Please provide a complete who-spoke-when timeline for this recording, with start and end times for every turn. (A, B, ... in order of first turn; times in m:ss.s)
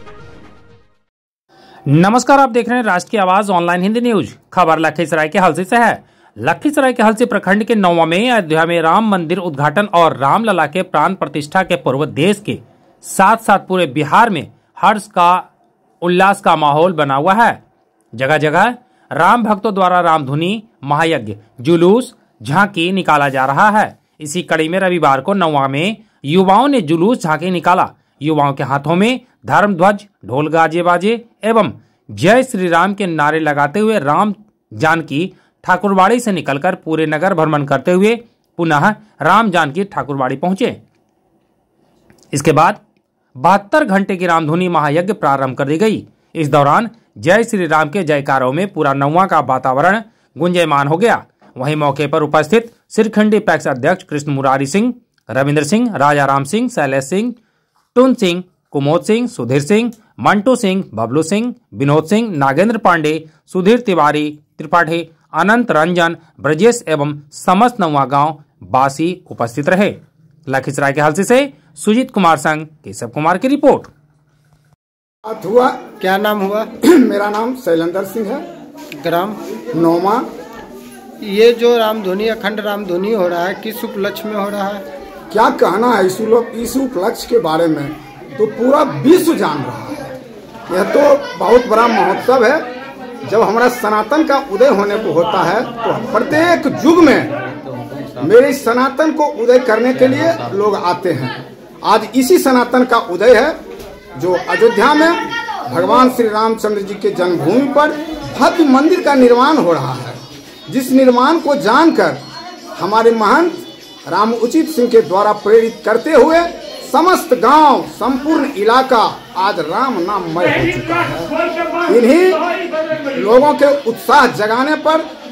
0:01.9-0:15.4 A
0:16.0-0:17.6 A
0:18.2-0:40.8 A
0:42.3-0:42.8 A
0:43.4-0:57.4 A
0:57.9-1:09.9 A
1:10.5-1:13.9 A
1:15.2-1:15.8 B
1:16.0-1:16.7 C
1:16.8-1:18.4 B
1:19.0-1:19.4 C
1:19.7-1:20.2 B
1:21.2-1:24.8 C
1:25.3-1:30.1 B
1:30.7-1:32.6 B
1:33.2-1:37.5 B
1:37.7-1:38.1 C
1:38.2-1:43.6 B
1:44.2-1:52.2 B
1:52.7-2:02.4 B
2:03.0-2:05.0 B